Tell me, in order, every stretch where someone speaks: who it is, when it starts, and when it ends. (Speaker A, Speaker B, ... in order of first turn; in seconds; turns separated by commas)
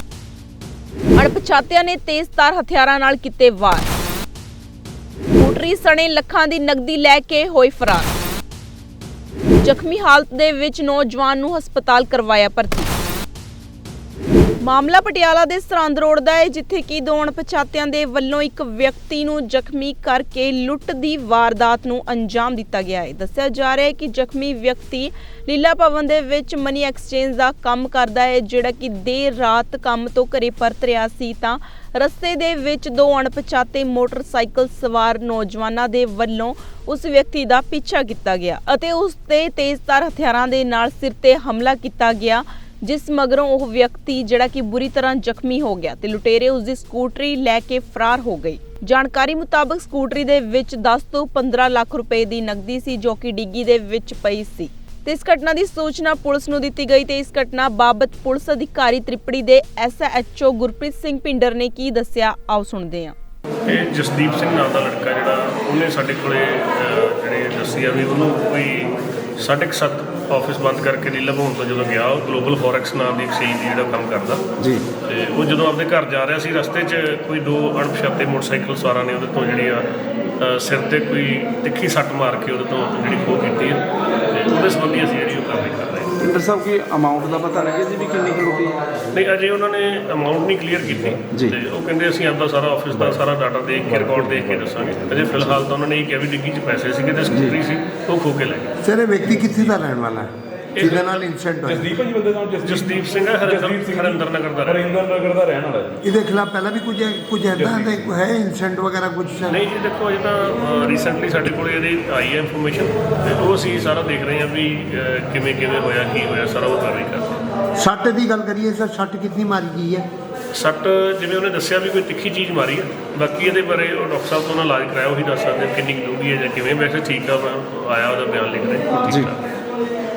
Speaker A: 1.1-3.9, Speaker A: 5.3-8.1, Speaker A: 9.6-12.9, Speaker A: 14.6-63.1, Speaker B: 63.6-74.4, Speaker C: 74.6-74.8, Speaker B: 75.0-79.9, Speaker B: 80.4-86.1, Speaker C: 86.2-89.0, Speaker B: 89.1-98.8, Speaker C: 91.0-91.5, Speaker C: 97.3-97.5, Speaker D: 98.8-101.9, Speaker B: 100.7-101.2, Speaker E: 101.6-106.0, Speaker B: 102.6-105.0, Speaker D: 106.0-109.6, Speaker E: 107.5-108.0, Speaker B: 109.5-117.4, Speaker D: 117.8-120.1, Speaker B: 120.5-129.4